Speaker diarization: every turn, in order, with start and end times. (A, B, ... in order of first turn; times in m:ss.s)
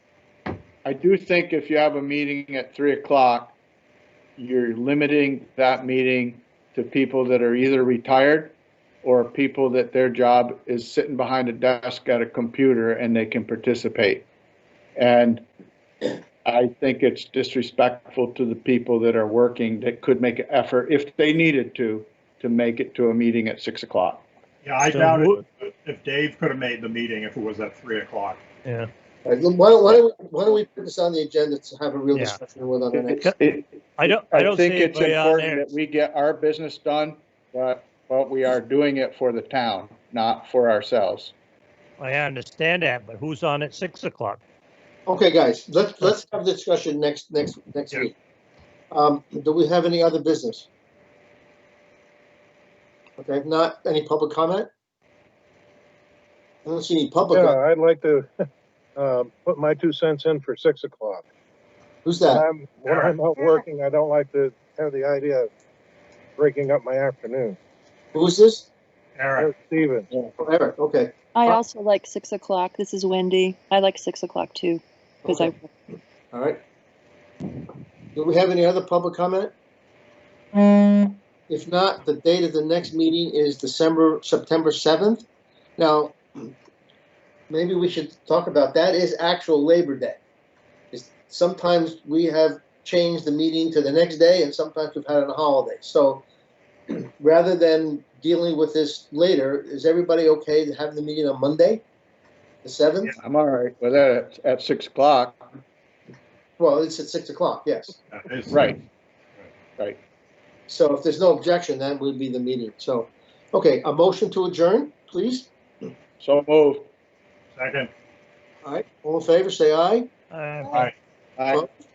0:00.8-0:03.6 A
0:04.4-0:14.3 A
0:15.0-0:15.4 A
0:16.0-0:24.2 A
0:24.6-0:28.4 B
0:24.8-0:25.4 C
0:28.6-0:28.9 C
0:29.2-0:33.3 D
0:32.1-0:32.4 C
0:33.0-0:41.3 A
0:34.0-0:35.7 C
0:42.0-0:44.4 C
0:45.1-0:48.1 D
0:48.9-0:50.7 D
0:53.2-0:54.7 D
0:56.6-0:57.6 D
0:57.3-0:58.3 E
0:59.0-1:01.3 E
1:02.0-1:02.4 D
1:02.3-1:05.5 E
1:02.9-1:03.1 B
1:06.4-1:07.6 E
1:08.1-1:08.7 D
1:09.2-1:09.5 B
1:09.4-1:10.1 E
1:10.1-1:11.6 D
1:11.3-1:15.7 F
1:15.2-1:15.5 D
1:16.3-1:16.6 D
1:18.1-1:19.5 D
1:20.9-1:25.2 D
1:25.8-1:26.5 D
1:27.5-1:30.2 D
1:30.9-1:36.2 D
1:36.9-1:41.8 D
1:42.6-1:43.1 D
1:43.2-1:45.4 A
1:46.6-1:48.0 D
1:48.1-1:48.7 B
1:48.5-1:48.8 A
1:50.7-1:55.5 D
1:56.2-1:56.9 A
1:57.6-1:57.9 B
1:58.6-2:00.1 D
2:00.3-2:00.8 C
2:01.4-2:01.6 A